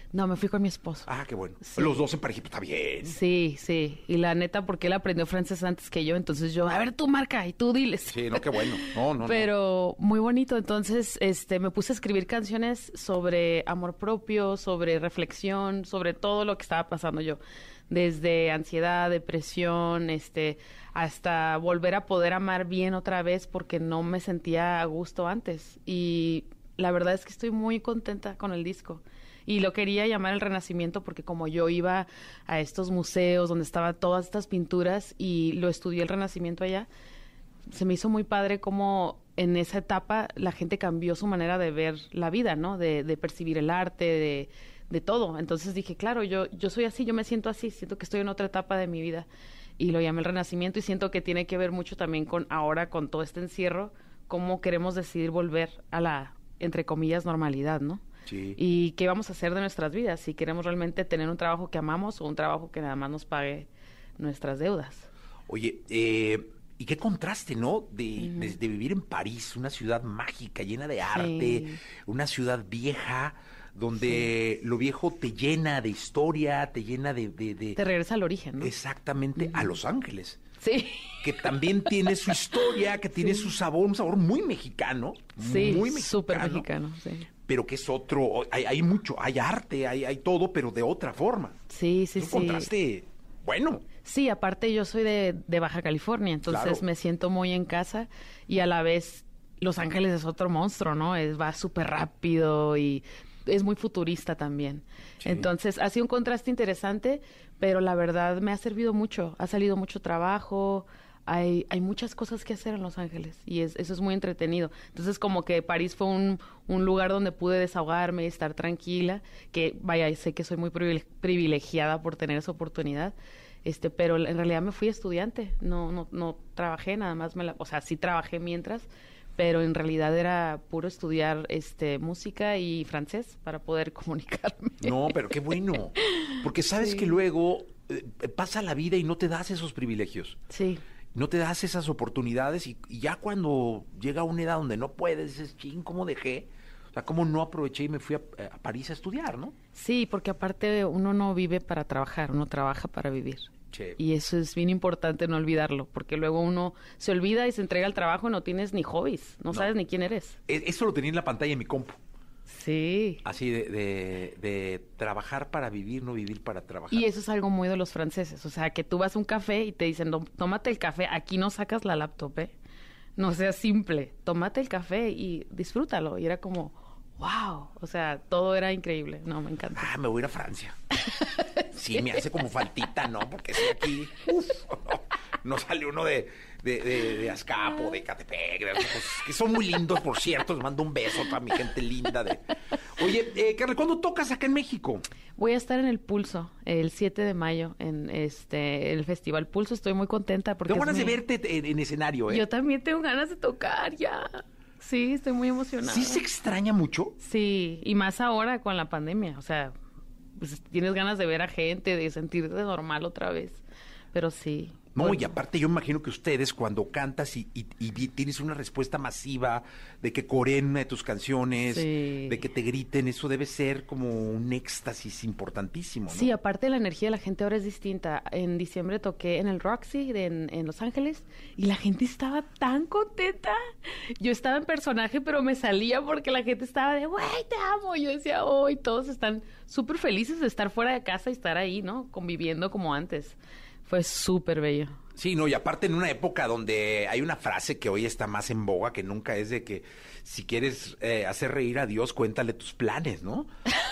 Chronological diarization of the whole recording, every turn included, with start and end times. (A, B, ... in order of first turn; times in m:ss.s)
0:00.1-0:01.1 A
0:01.1-0:03.2 B
0:01.6-0:02.0 A
0:03.0-0:36.9 A
0:08.1-0:09.5 B
0:37.7-0:49.3 A
0:49.8-0:58.0 A
0:58.2-0:58.6 B
0:58.6-1:05.1 A
1:05.5-1:17.8 B
1:08.2-1:08.6 A
1:11.1-1:11.8 A
1:14.0-1:14.2 A
1:17.8-1:18.7 A
1:18.6-1:20.4 B
1:19.4-1:19.7 A
1:20.6-1:21.3 A
1:21.2-1:26.6 B
1:22.7-1:23.5 A
1:25.4-1:27.3 A
1:27.4-1:31.6 B
1:31.7-1:32.7 A
1:32.2-1:33.8 B
1:34.0-2:15.0 A
1:36.5-1:36.8 B
1:45.2-1:45.5 B
2:14.8-2:20.4 B
2:16.1-2:17.2 A
2:20.5-2:20.8 A
2:21.1-2:29.5 B
2:29.7-2:40.4 A
2:33.7-2:34.0 B
2:40.5-2:42.0 B
2:42.5-2:43.2 A
2:43.2-2:47.1 B
2:46.9-2:52.5 A
2:53.2-2:59.9 A
2:59.8-3:00.8 B
3:01.2-3:02.2 A
3:01.7-3:15.0 B
3:15.4-3:21.2 A
3:20.7-3:22.4 B
3:22.3-3:26.2 A
3:25.8-3:27.2 B
3:27.2-3:29.7 A
3:30.4-3:33.6 A
3:34.1-3:35.3 A
3:34.9-3:46.3 B
3:41.6-3:42.4 A
3:46.1-3:53.6 A
3:54.2-4:05.0 A
4:05.2-4:13.5 B